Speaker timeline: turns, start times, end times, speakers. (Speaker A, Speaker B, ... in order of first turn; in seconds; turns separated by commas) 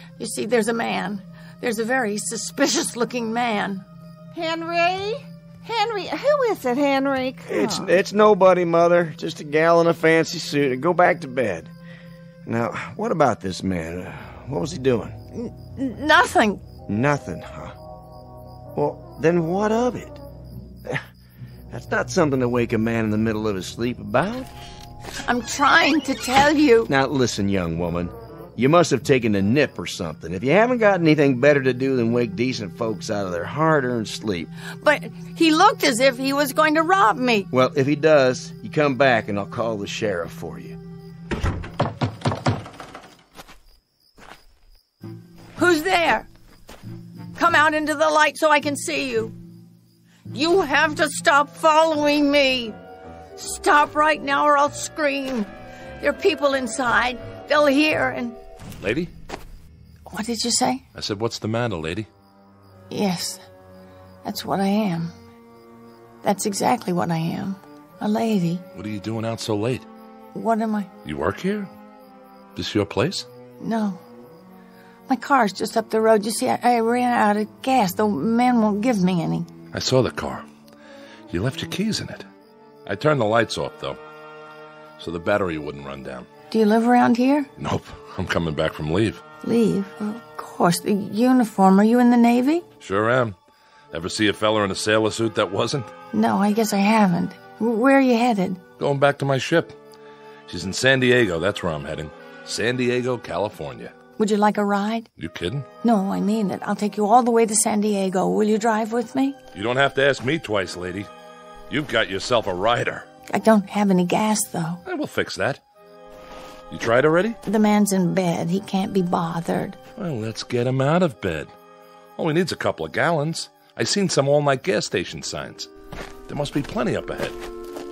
Speaker A: 0.2-3.8, Speaker B: 4.3-7.9, Speaker C: 7.5-11.7, Speaker C: 12.4-15.2, Speaker A: 15.3-16.6, Speaker C: 16.9-17.7, Speaker C: 18.7-20.2, Speaker C: 21.7-24.5, Speaker A: 25.3-26.9, Speaker C: 26.9-34.5, Speaker A: 34.8-37.5, Speaker C: 37.5-40.8, Speaker A: 45.6-46.3, Speaker A: 47.4-49.3, Speaker A: 50.3-52.7, Speaker A: 53.4-58.4, Speaker D: 58.8-59.1, Speaker A: 60.1-60.8, Speaker D: 60.9-62.1, Speaker A: 62.9-63.4, Speaker A: 64.2-65.1, Speaker A: 66.2-68.6, Speaker D: 68.7-69.8, Speaker A: 70.3-70.9, Speaker D: 71.0-71.7, Speaker D: 72.5-73.2, Speaker A: 73.6-74.0, Speaker A: 75.1-79.5, Speaker D: 79.7-80.4, Speaker D: 81.3-82.3, Speaker D: 82.8-84.0, Speaker D: 85.0-86.3, Speaker A: 86.5-87.5, Speaker D: 87.6-89.2, Speaker A: 89.4-92.6, Speaker D: 92.8-93.3, Speaker D: 93.9-95.9, Speaker A: 96.1-98.6, Speaker D: 98.8-99.7, Speaker D: 100.5-103.9, Speaker A: 104.2-105.1, Speaker D: 105.2-105.7, Speaker A: 105.8-109.3, Speaker D: 109.5-111.1, Speaker D: 111.7-113.0, Speaker A: 113.3-114.8, Speaker D: 114.8-115.6, Speaker D: 116.7-117.4, Speaker A: 117.4-119.8, Speaker D: 120.0-121.5, Speaker D: 122.2-125.7, Speaker D: 126.3-127.3